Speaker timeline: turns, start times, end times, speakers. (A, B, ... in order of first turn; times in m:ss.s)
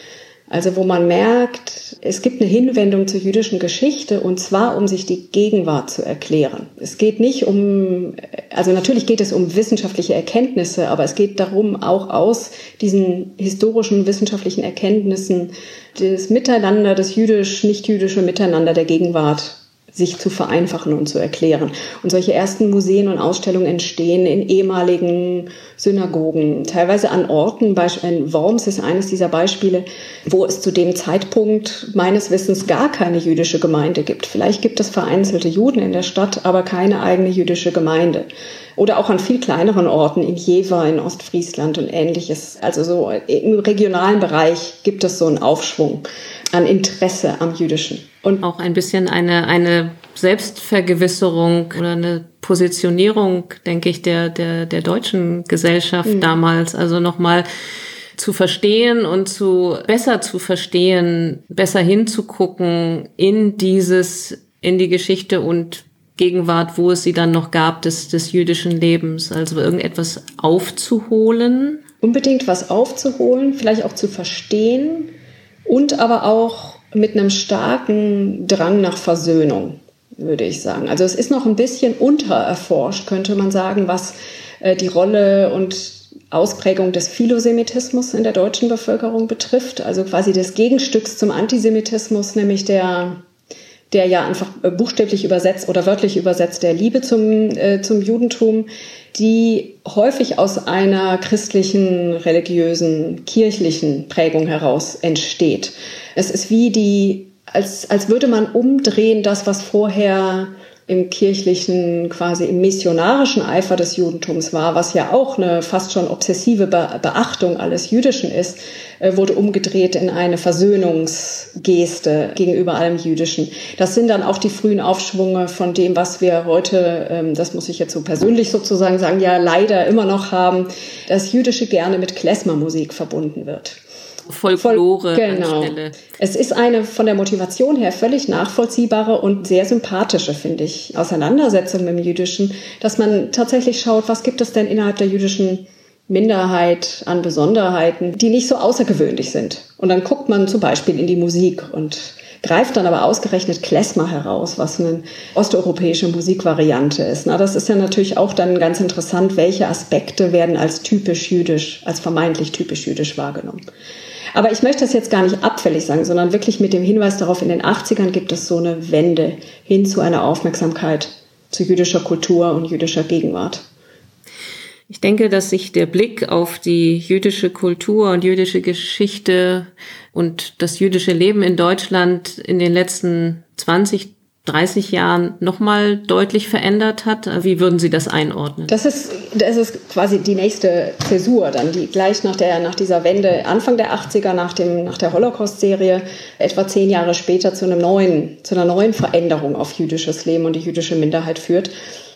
0:00.5-0:48.4 A
0:48.4-0:57.4 B
0:56.0-0:56.4 A
0:58.1-1:11.8 B
1:12.0-1:15.1 A
1:15.7-1:33.2 A
1:33.9-2:13.8 A
2:14.3-2:16.0 B
2:14.6-2:43.6 A
2:44.3-2:53.6 A
2:54.9-3:08.7 B
3:08.7-3:21.7 A